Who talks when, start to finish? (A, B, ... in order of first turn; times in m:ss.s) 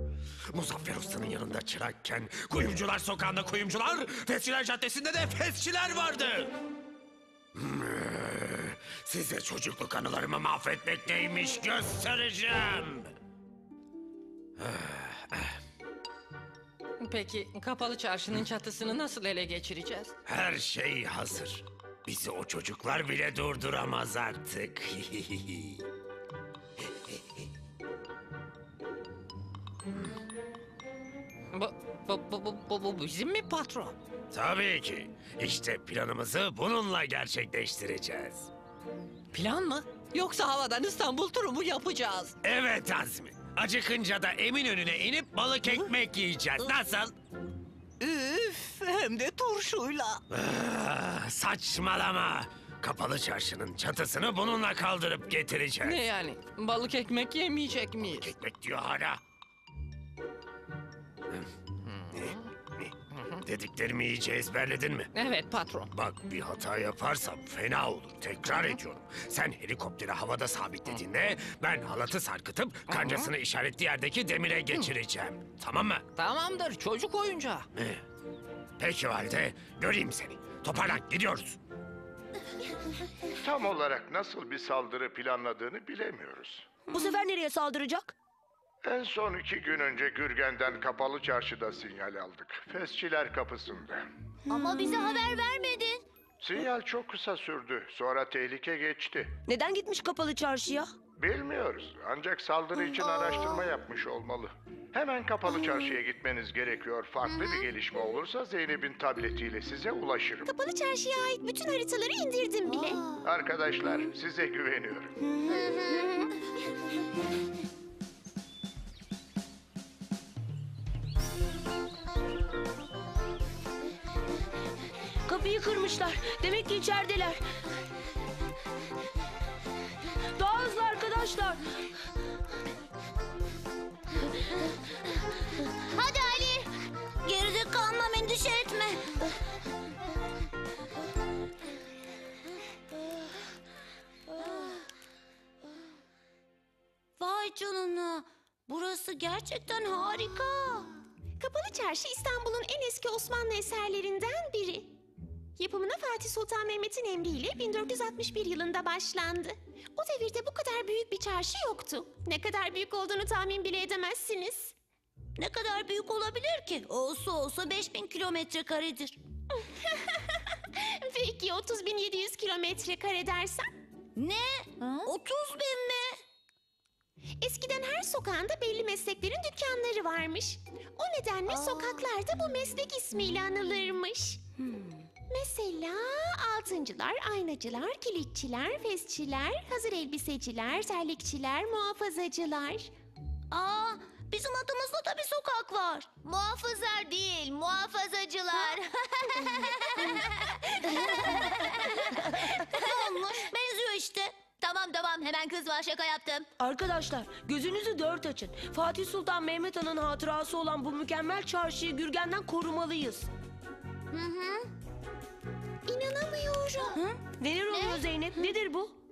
0:00.5-0:06.5 A
0:07.5-0:13.1 A
0:14.6-0:15.6 A
0:17.0-0:20.1 B
0:20.2-0:25.8 A
0:31.5-0:34.0 B
0:34.3-0:38.5 A
0:39.3-0:42.3 B
0:42.4-0:47.1 A
0:48.0-0:50.2 B
0:50.3-0:56.0 A
0:55.8-0:58.3 B
0:58.0-0:59.2 A
1:01.9-1:02.5 B
1:02.1-1:05.1 A
1:05.1-1:05.9 B
1:05.9-1:16.0 A
1:12.9-1:13.3 B
1:16.2-1:17.6 B
1:17.7-1:18.0 A
1:18.8-1:21.6 A
1:23.3-1:26.6 C
1:26.9-1:28.1 D
1:28.8-1:34.0 C
1:34.5-1:36.0 E
1:36.4-1:39.3 C
1:39.5-1:40.9 D
1:41.2-1:50.5 C
1:50.4-1:53.0 F
1:53.2-1:55.1 C
1:55.4-1:56.3 F
2:05.3-2:07.3 D
2:05.4-2:07.4 E
2:10.4-2:11.5 D
2:10.5-2:11.5 E
2:15.9-2:16.7 E
2:17.2-2:19.0 E
2:27.2-2:30.9 E
2:31.4-2:34.9 F
2:35.6-2:44.7 F
2:45.4-2:49.2 E
2:49.6-2:53.7 F
2:54.2-2:56.2 E
2:57.4-3:04.4 F
3:05.3-3:12.9 F
3:13.5-3:22.0 E
3:22.5-3:26.5 E
3:26.6-3:33.2 D
3:27.8-3:28.7 E
3:30.5-3:33.2 E
3:34.1-3:34.6 E
3:35.8-3:37.0 F
3:37.2-3:38.5 E
3:37.3-3:38.9 D